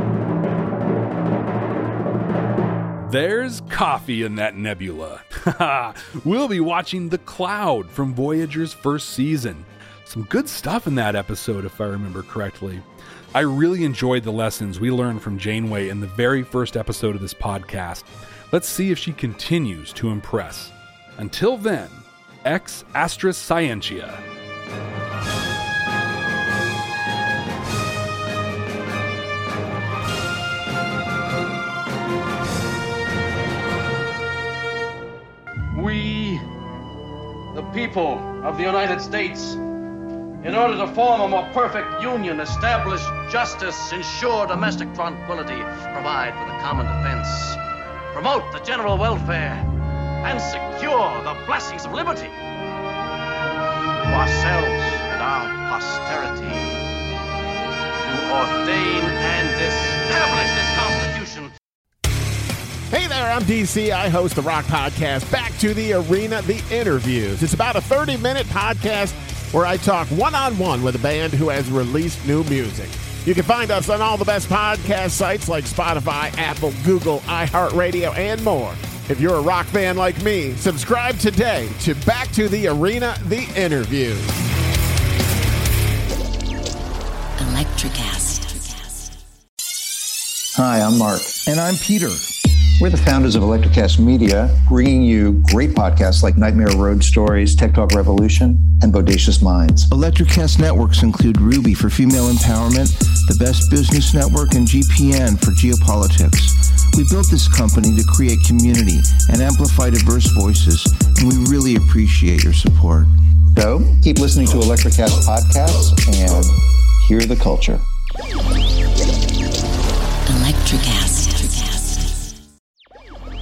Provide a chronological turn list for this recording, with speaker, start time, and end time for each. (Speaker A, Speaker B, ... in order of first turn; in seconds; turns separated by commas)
Speaker A: 3.0-24.2, Speaker B: 35.7-36.4, Speaker B: 37.5-39.6, Speaker B: 40.4-47.6, Speaker B: 48.1-49.7, Speaker B: 50.2-52.4, Speaker B: 54.0-56.8, Speaker B: 58.0-61.5, Speaker C: 62.9-84.3, Speaker D: 90.5-92.3, Speaker D: 92.8-99.9, Speaker E: 99.9-113.1, Speaker D: 113.5-117.8